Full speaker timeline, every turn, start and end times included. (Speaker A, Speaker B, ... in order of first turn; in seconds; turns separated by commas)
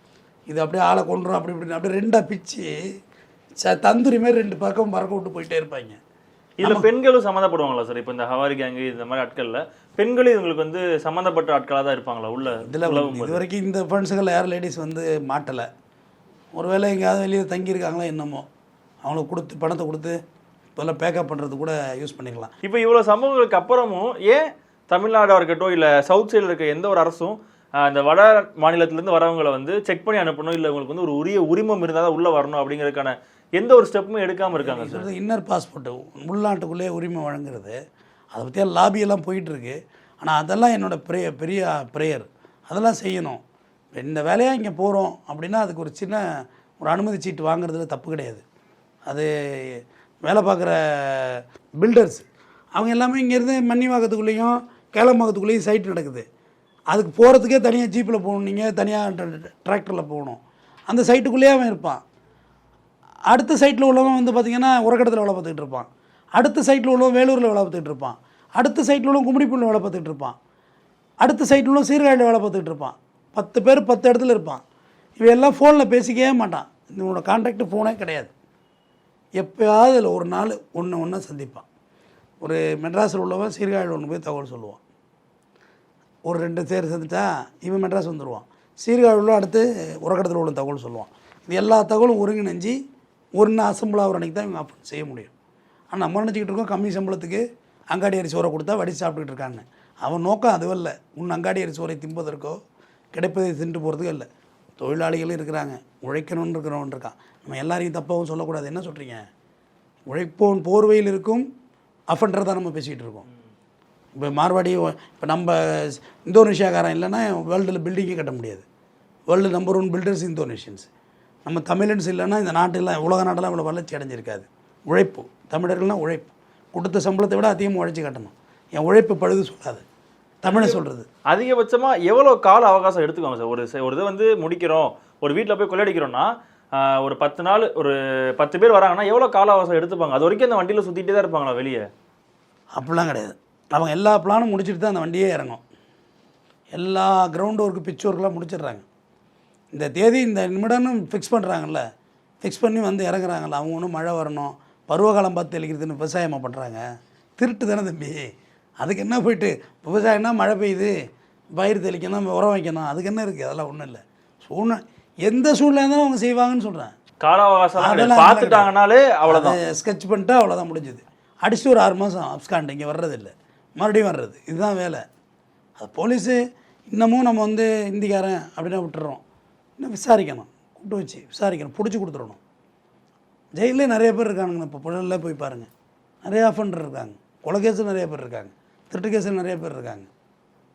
Speaker A: 0.5-2.7, Speaker A: 3.6-6.0, Speaker B: 6.6-13.4, Speaker A: 12.6-15.7, Speaker A: 16.6-18.5, Speaker A: 19.0-20.2, Speaker A: 20.8-22.5, Speaker B: 22.6-35.1, Speaker A: 34.5-37.8, Speaker A: 38.3-43.4, Speaker A: 43.9-46.2, Speaker A: 46.8-48.4, Speaker A: 49.1-56.2, Speaker A: 56.9-62.0, Speaker A: 63.3-70.4, Speaker A: 71.2-74.6, Speaker A: 75.2-78.3, Speaker A: 79.4-81.7, Speaker A: 82.4-84.8, Speaker A: 86.3-92.8, Speaker A: 93.4-95.3, Speaker A: 95.9-102.6, Speaker A: 103.1-104.3, Speaker A: 104.8-109.2, Speaker A: 110.1-111.5, Speaker A: 112.1-113.3, Speaker A: 114.2-118.7, Speaker A: 119.3-120.9, Speaker A: 121.5-129.8, Speaker A: 130.4-131.1, Speaker B: 130.4-141.9, Speaker A: 142.8-145.6, Speaker A: 146.8-148.8, Speaker A: 149.7-151.8, Speaker A: 152.4-156.8, Speaker A: 157.4-158.3, Speaker A: 158.8-160.9, Speaker A: 161.6-166.9, Speaker B: 167.2-169.6, Speaker A: 167.8-168.7, Speaker A: 169.3-175.0, Speaker A: 175.8-176.4, Speaker A: 176.9-179.2, Speaker A: 179.8-182.4, Speaker A: 183.6-185.7, Speaker A: 186.2-190.1